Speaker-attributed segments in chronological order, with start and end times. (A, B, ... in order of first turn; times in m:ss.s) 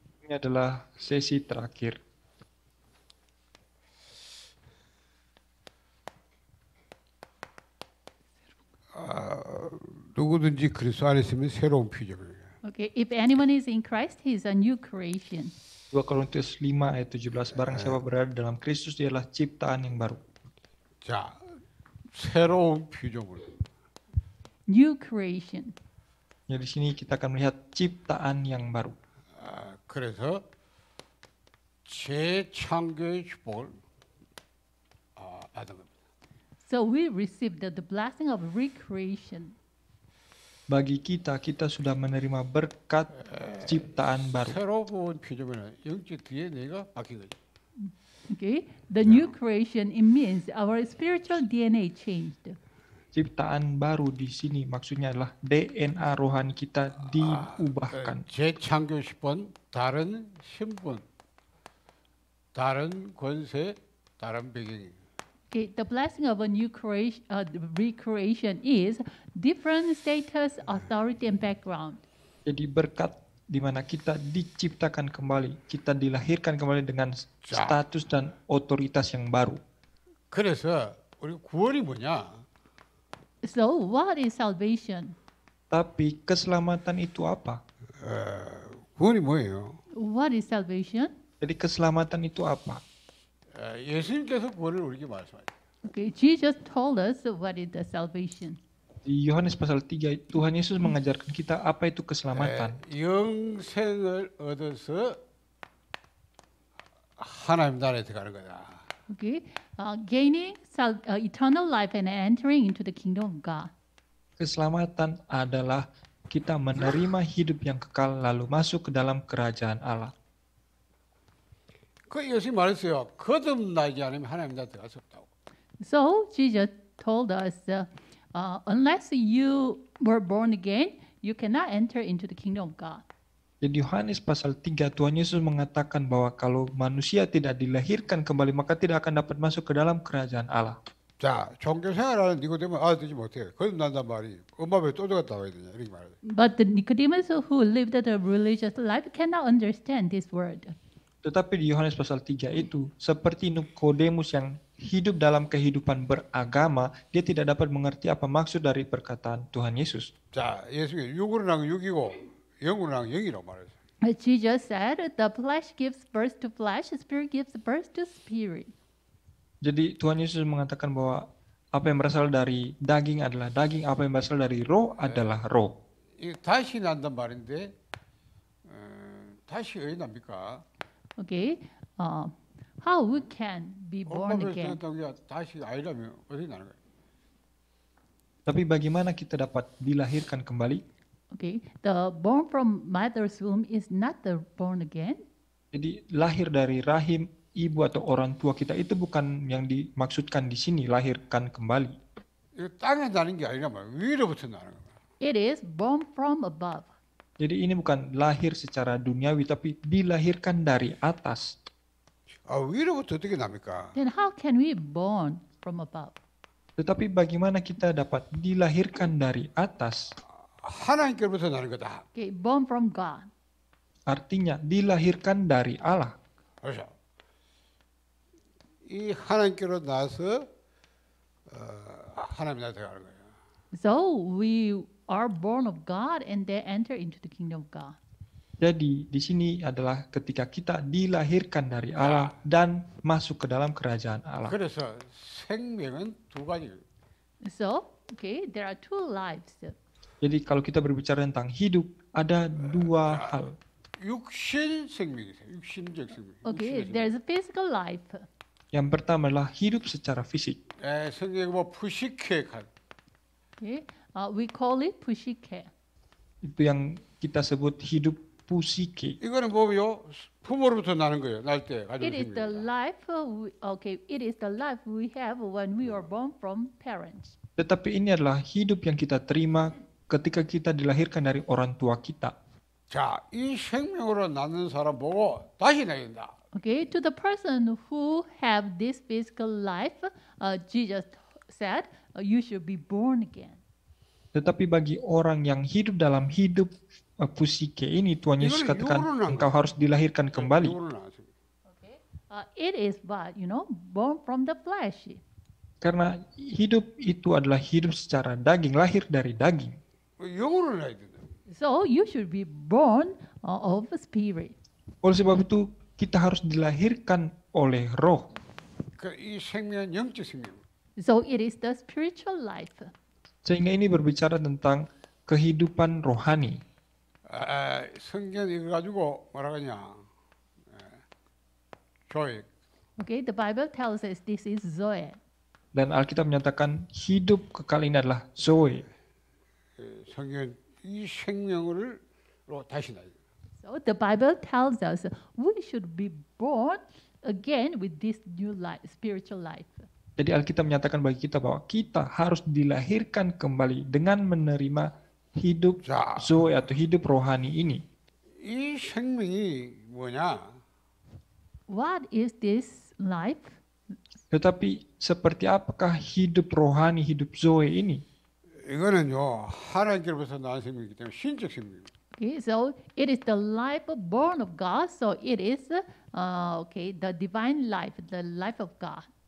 0:00.2-0:02.0 A
0:08.9-0:12.5 B
0:12.6-0:15.5 C
0:15.9-0:20.2 A
0:17.6-0:18.0 B
0:21.0-0:21.4 B
0:22.1-0:23.6 B
0:24.7-0:25.7 C
0:26.5-0:29.0 A
0:29.4-0:30.4 B
0:31.8-0:33.8 B
0:35.2-0:35.9 B
0:36.6-0:39.5 C
0:40.7-0:44.6 A
0:43.3-0:47.3 B
0:47.8-0:52.6 C
0:53.1-0:58.2 A
0:57.2-1:01.0 B
1:02.5-1:05.0 B
1:05.5-1:12.0 C
1:12.4-1:19.6 A
1:17.4-1:17.8 B
1:20.3-1:22.4 B
1:23.4-1:25.1 C
1:25.7-1:27.6 A
1:28.0-1:29.8 B
1:29.9-1:31.1 C
1:31.4-1:32.8 A
1:33.5-1:35.5 B
1:35.8-1:38.6 C
1:39.0-1:42.8 A
1:42.3-1:45.2 B
1:47.2-1:48.8 B
1:49.1-1:53.7 C
1:54.4-2:00.1 A
2:02.1-2:05.3 B
2:05.8-2:13.0 C
2:13.6-2:20.8 A
2:21.2-2:26.2 B
2:26.2-2:30.8 C
2:31.2-2:40.1 A
2:40.3-2:43.7 B
2:44.0-2:48.7 C
2:49.6-2:55.8 A
2:56.2-2:57.7 B
2:58.6-3:00.6 B
3:01.2-3:04.8 C
3:04.1-3:06.8 B
3:08.4-3:10.8 A
3:11.3-3:15.2 C
3:15.7-3:22.0 A
3:22.5-3:24.9 B
3:25.2-3:26.9 C
3:27.4-3:31.6 A
3:32.5-3:33.9 B
3:33.9-3:36.1 C
3:36.8-3:40.1 A
3:40.6-3:42.0 B
3:42.1-3:43.3 C
3:44.1-3:46.1 A
3:46.6-3:46.9 B
3:48.8-3:50.5 B
3:51.5-3:53.2 B
3:53.7-3:58.0 C
3:58.6-4:04.5 A
4:02.0-4:02.4 B
4:04.4-4:06.8 B
4:07.4-4:09.7 C
4:10.2-4:13.6 A
4:12.7-4:13.3 B
4:14.0-4:17.1 B
4:16.4-4:18.3 C
4:18.7-4:20.6 A
4:20.8-4:22.7 B
4:23.6-4:25.7 C
4:26.4-4:29.2 A
4:29.2-4:32.7 B
4:32.0-4:37.3 C
4:37.6-4:42.3 A
4:42.9-4:46.3 B
4:46.5-4:53.6 C
4:54.3-5:00.7 A
4:58.4-4:59.6 B
5:00.3-5:01.3 B
5:01.7-5:05.2 C
5:05.8-5:09.8 A
5:10.2-5:11.3 B
5:11.5-5:14.5 C
5:15.0-5:18.3 A
5:19.0-5:20.6 B
5:21.0-5:22.9 C
5:23.4-5:26.6 A
5:27.3-5:30.0 B
5:30.7-5:31.0 B
5:32.1-5:32.5 B
5:33.0-5:35.2 C
5:35.7-5:38.9 A
5:39.8-5:43.1 B
5:43.6-5:49.9 C
5:50.2-5:57.8 A
5:55.8-5:56.4 B
5:58.4-6:00.6 B
6:01.7-6:03.6 C
6:04.3-6:08.0 A
6:08.6-6:11.9 B
6:12.2-6:19.1 C